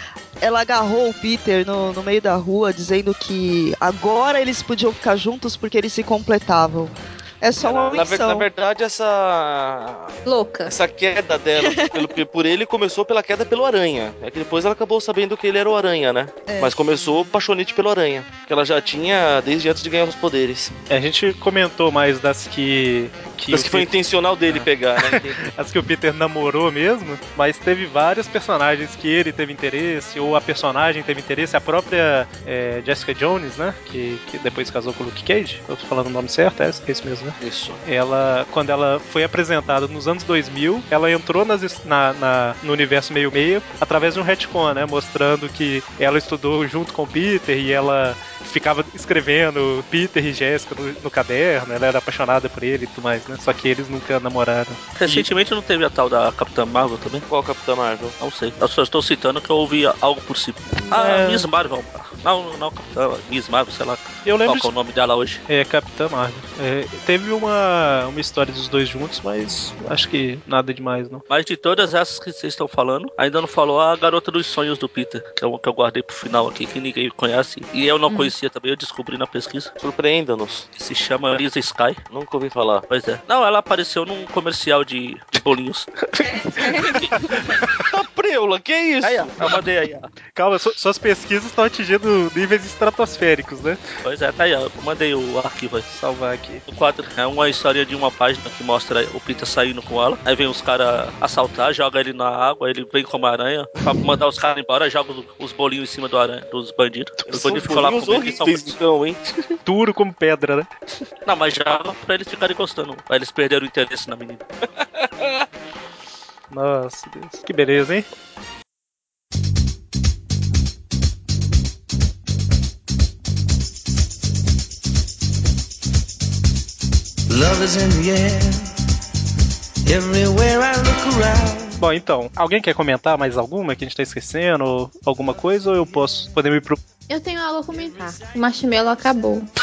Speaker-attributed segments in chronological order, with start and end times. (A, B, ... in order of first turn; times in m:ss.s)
0:00.4-0:08.5 A
0:07.6-0:20.7 B
0:10.2-0:10.7 C
0:11.6-0:12.2 A
0:16.5-0:16.7 A
0:20.9-0:23.9 D
0:23.5-0:25.4 B
0:24.5-0:55.2 D
0:37.4-0:37.8 B
0:55.0-0:57.3 E
0:57.3-0:58.2 B
0:58.2-1:05.4 E
1:00.9-1:01.5 D
1:04.2-1:04.7 D
1:05.5-1:11.2 D
1:11.3-1:19.7 E
1:19.8-1:20.7 B
1:20.7-1:22.0 E
1:22.1-1:22.9 B
1:22.9-1:25.9 E
1:26.2-1:27.7 D
1:26.3-1:27.0 C
1:27.8-1:29.6 B
1:29.0-1:29.6 D
1:29.4-1:30.1 E
1:30.3-1:33.8 D
1:34.0-1:35.9 E
1:35.9-1:36.6 D
1:36.7-1:48.8 E
1:47.3-1:49.6 B
1:49.6-1:50.7 D
1:51.2-1:54.4 E
1:56.5-1:58.1 D
2:07.3-2:08.7 F
2:09.8-2:11.8 F
2:11.8-2:16.8 D
2:17.1-2:19.5 C